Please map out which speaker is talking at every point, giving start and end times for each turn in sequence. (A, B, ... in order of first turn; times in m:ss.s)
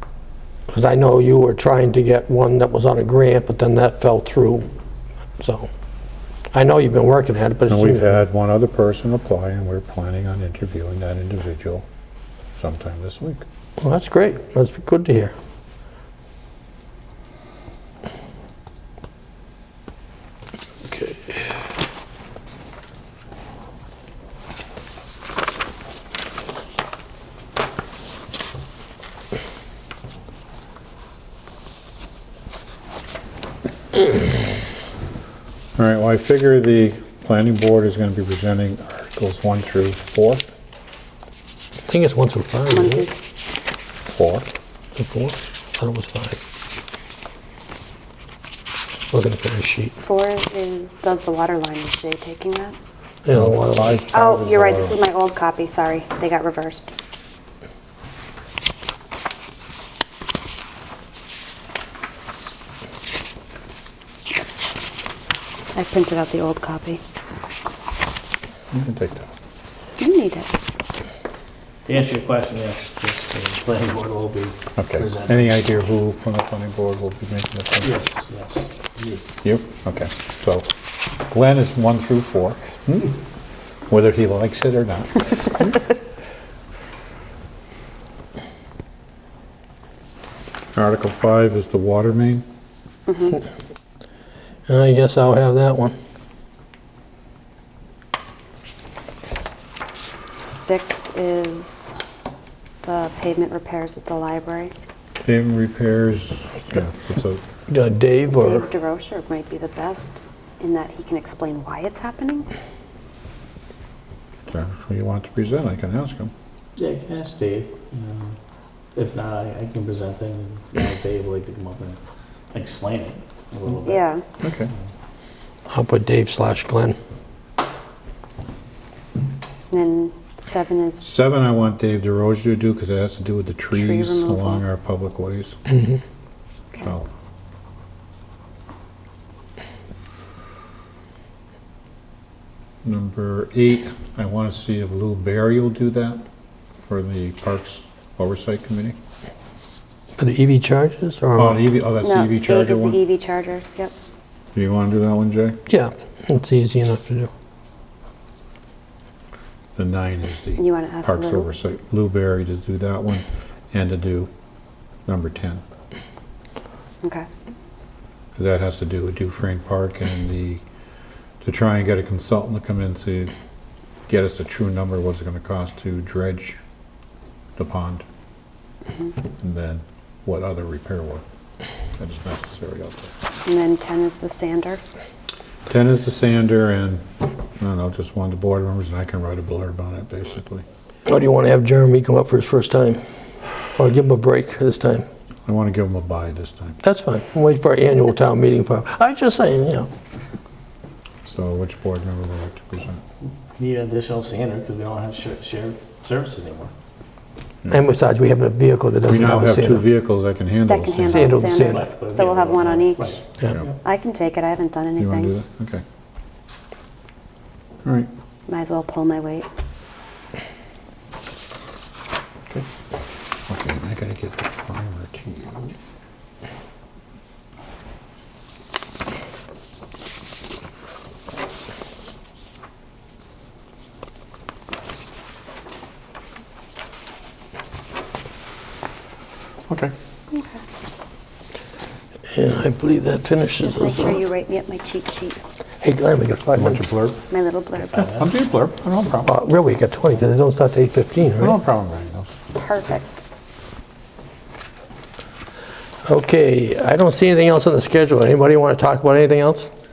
0:00.7-0:04.7 A
0:05.4-0:05.7 A
0:06.5-0:08.2 A
0:07.7-0:11.8 B
0:12.6-0:13.4 B
0:13.8-0:15.3 A
0:20.9-0:21.5 A
0:35.8-0:40.4 B
0:41.9-0:43.1 A
0:42.7-0:43.1 C
0:44.1-0:44.5 B
0:45.0-0:46.4 A
0:49.1-0:50.0 A
0:50.0-0:52.8 C
0:53.2-0:54.0 A
0:53.3-0:55.0 B
0:54.1-0:56.9 C
1:05.7-1:07.0 C
1:08.7-1:09.3 B
1:10.0-1:10.5 C
1:11.9-1:15.5 D
1:14.8-1:17.9 B
1:17.8-1:19.2 D
1:19.4-1:20.7 B
1:21.3-1:23.2 B
1:23.9-1:25.7 B
1:30.8-1:32.4 B
1:33.1-1:33.4 C
1:34.7-1:36.0 A
1:40.5-1:42.0 C
1:42.8-1:44.7 C
1:45.2-1:47.4 B
1:47.7-1:48.7 A
1:48.3-1:52.5 C
1:54.5-1:56.3 B
1:56.8-1:58.4 D
1:59.0-2:02.0 D
2:02.5-2:04.1 D
2:03.8-2:04.3 C
2:04.4-2:04.7 B
2:05.7-2:07.0 A
2:09.7-2:11.0 C
2:11.0-2:15.6 B
2:13.7-2:14.6 C
2:15.7-2:16.0 A
2:22.8-2:26.2 B
2:26.9-2:29.0 B
2:30.2-2:31.6 A
2:31.4-2:33.0 B
2:32.0-2:33.9 C
2:34.6-2:35.6 B
2:35.7-2:37.3 A
2:39.8-2:44.3 B
2:40.6-2:41.5 C
2:45.1-2:45.6 B
2:47.0-2:47.3 C
2:48.4-2:50.6 B
2:51.4-2:53.3 B
2:54.1-2:56.6 B
2:57.6-2:58.1 B
2:59.4-3:01.2 B
3:02.0-3:03.1 B
3:03.4-3:04.8 C
3:05.7-3:10.6 B
3:11.1-3:13.0 A
3:13.8-3:15.1 A
3:15.5-3:16.8 B
3:16.8-3:19.9 A
3:21.2-3:23.0 B
3:23.4-3:26.7 D
3:27.7-3:29.9 A
3:29.1-3:31.4 B
3:30.7-3:33.2 C
3:31.0-3:31.9 A
3:31.5-3:33.7 D
3:33.8-3:35.3 C
3:35.0-3:35.8 B
3:37.8-3:38.1 B
3:38.5-3:39.5 C
3:43.5-3:45.8 B
3:59.7-3:59.9 B
4:00.3-4:00.6 C
4:02.3-4:04.2 A
4:03.6-4:05.4 C
4:05.8-4:06.9 A
4:06.5-4:07.2 B
4:07.3-4:08.1 C
4:07.8-4:08.3 D
4:08.2-4:09.3 B
4:09.3-4:11.6 A
4:11.4-4:12.4 B
4:12.6-4:13.2 C
4:16.0-4:19.7 A